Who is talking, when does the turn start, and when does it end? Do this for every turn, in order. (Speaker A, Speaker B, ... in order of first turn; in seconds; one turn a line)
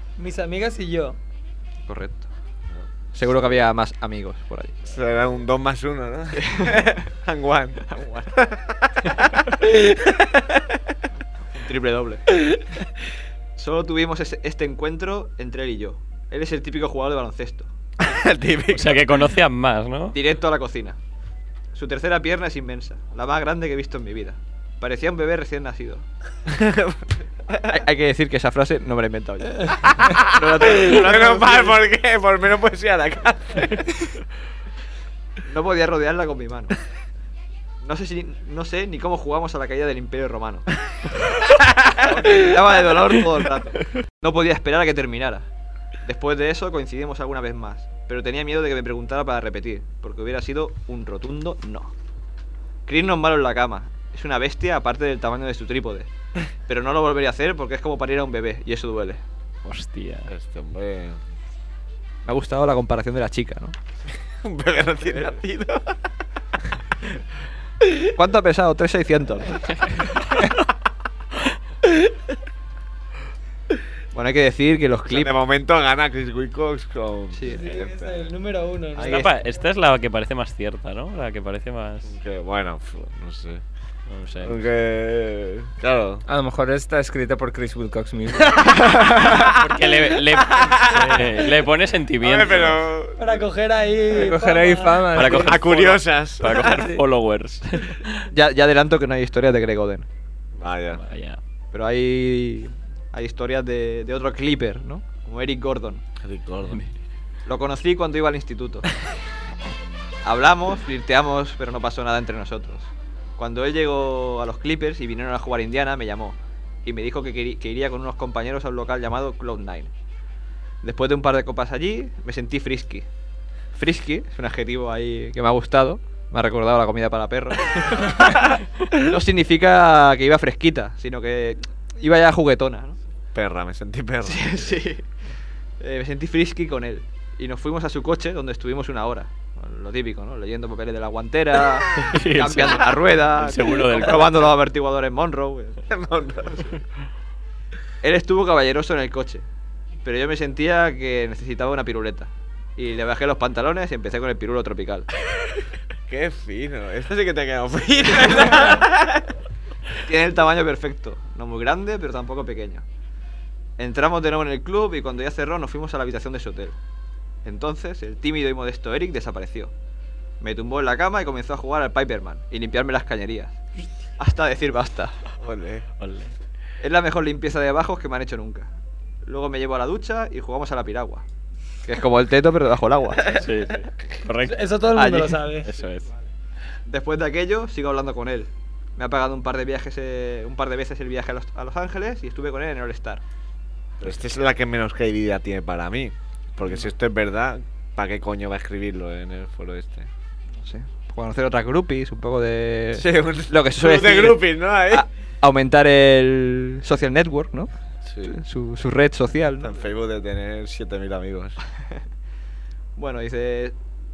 Speaker A: 0.2-1.2
Speaker B: 1.9-2.3
Speaker C: 2.8-3.6
Speaker B: 3.1-4.8
Speaker C: 4.8-9.0
Speaker B: 6.4-7.0
Speaker B: 7.9-8.3
Speaker C: 10.1-10.4
Speaker B: 11.5-12.2
Speaker B: 13.6-17.7
Speaker C: 18.0-19.0
Speaker D: 18.7-20.2
Speaker B: 20.1-21.0
Speaker B: 21.7-26.1
Speaker C: 26.5-27.8
Speaker B: 27.6-31.8
Speaker C: 29.8-33.9
Speaker B: 35.4-36.7
Speaker B: 37.8-40.6
Speaker C: 41.5-42.2
Speaker B: 42.0-45.5
Speaker B: 46.0-51.9
Speaker B: 52.9-56.1
Speaker B: 56.7-59.2
Speaker D: 59.6-60.3
Speaker C: 60.2-61.2
Speaker B: 62.2-63.8
Speaker C: 64.4-65.9
Speaker B: 65.0-65.3
Speaker B: 68.1-69.6
Speaker B: 74.1-75.3
Speaker C: 75.1-78.3
Speaker B: 77.3-77.6
Speaker A: 77.4-79.6
Speaker B: 79.0-79.3
Speaker D: 79.0-82.1
Speaker C: 82.0-83.6
Speaker D: 84.1-84.6
Speaker C: 84.4-86.2
Speaker E: 86.2-88.8
Speaker C: 88.7-91.5
Speaker D: 89.3-92.8
Speaker C: 92.2-93.4
Speaker A: 93.2-95.7
Speaker E: 94.1-95.6
Speaker D: 95.1-98.2
Speaker C: 95.4-96.9
Speaker E: 96.7-97.0
Speaker B: 98.3-100.1
Speaker C: 100.5-101.0
Speaker D: 100.9-101.4
Speaker B: 101.7-106.0
Speaker C: 106.2-106.8
Speaker B: 107.5-108.8
Speaker B: 110.2-119.9
Speaker B: 120.8-123.1
Speaker B: 123.7-133.0
Speaker C: 133.3-134.8
Speaker B: 134.2-135.0
Speaker B: 135.8-145.8
Speaker D: 141.9-144.5
Speaker C: 145.9-146.7
Speaker B: 148.0-149.4
Speaker B: 150.0-155.1
Speaker C: 156.1-159.2
Speaker B: 160.0-162.8
Speaker B: 163.8-166.8
Speaker B: 167.4-169.7
Speaker B: 170.4-173.6
Speaker B: 174.2-175.1
Speaker C: 175.4-175.8
Speaker D: 176.0-176.3
Speaker B: 176.8-178.7
Speaker B: 179.2-181.2
Speaker B: 181.8-183.4
Speaker D: 183.3-184.6
Speaker A: 184.4-185.7
Speaker B: 184.9-185.5
Speaker D: 185.6-186.1
Speaker B: 186.8-193.2
Speaker C: 194.0-200.1
Speaker B: 200.6-207.7
Speaker C: 202.9-205.1
Speaker B: 208.2-209.8
Speaker C: 209.6-211.6
Speaker B: 212.9-213.7